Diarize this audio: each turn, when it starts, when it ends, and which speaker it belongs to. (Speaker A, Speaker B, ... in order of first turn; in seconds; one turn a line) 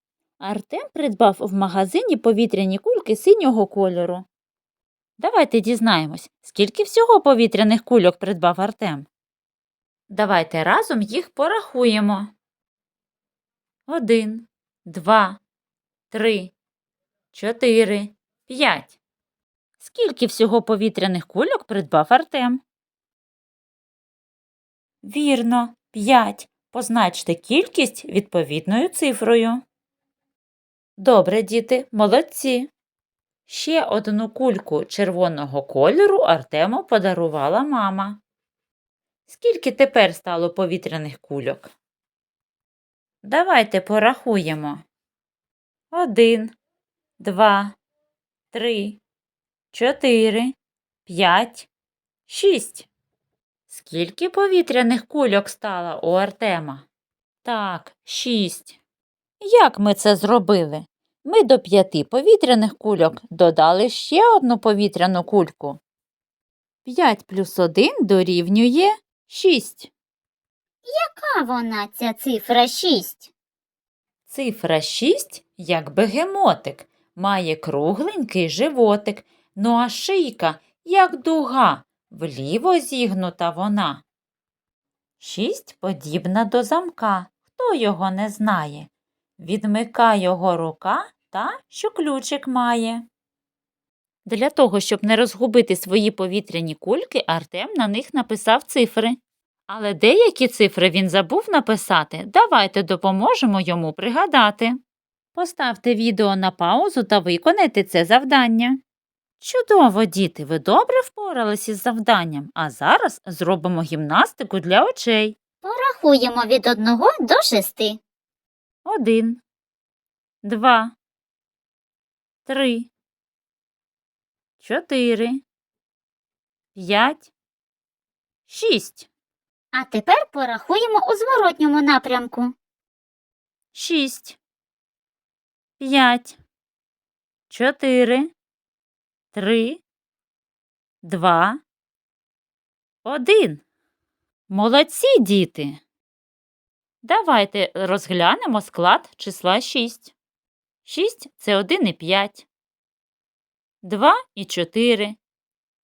Speaker A: 0.4-4.3
Speaker A: 5.2-9.1
Speaker A: 10.1-12.3
Speaker A: 13.9-15.4
Speaker A: 16.1-16.5
Speaker A: 17.3-18.9
Speaker A: 19.8-22.6
Speaker A: 25.0-29.6
Speaker A: 31.0-32.7
Speaker A: 33.5-38.2
Speaker A: 39.3-41.7
Speaker A: 43.2-44.8
Speaker A: 45.9-46.5
Speaker A: 47.2-47.8
Speaker A: 48.5-49.0
Speaker A: 49.7-50.5
Speaker A: 51.0-51.7
Speaker A: 52.3-52.9
Speaker A: 53.7-56.8
Speaker A: 57.4-58.8
Speaker A: 59.4-65.8
Speaker A: 66.8-69.9
Speaker B: 70.8-73.3
Speaker A: 74.3-84.0
Speaker A: 85.2-93.0
Speaker A: 94.2-104.8
Speaker A: 105.3-108.8
Speaker A: 109.4-115.4
Speaker B: 115.6-118.0
Speaker A: 118.8-119.4
Speaker A: 120.4-120.9
Speaker A: 122.5-122.9
Speaker A: 124.6-125.4
Speaker A: 126.7-127.3
Speaker A: 128.5-129.1
Speaker B: 129.7-132.5
Speaker A: 133.7-134.4
Speaker A: 135.8-136.4
Speaker A: 137.5-138.3
Speaker A: 139.3-139.8
Speaker A: 141.0-141.6
Speaker A: 143.0-143.6
Speaker A: 144.5-145.8
Speaker A: 147.0-150.1
Speaker A: 150.8-152.5
Speaker A: 153.8-155.2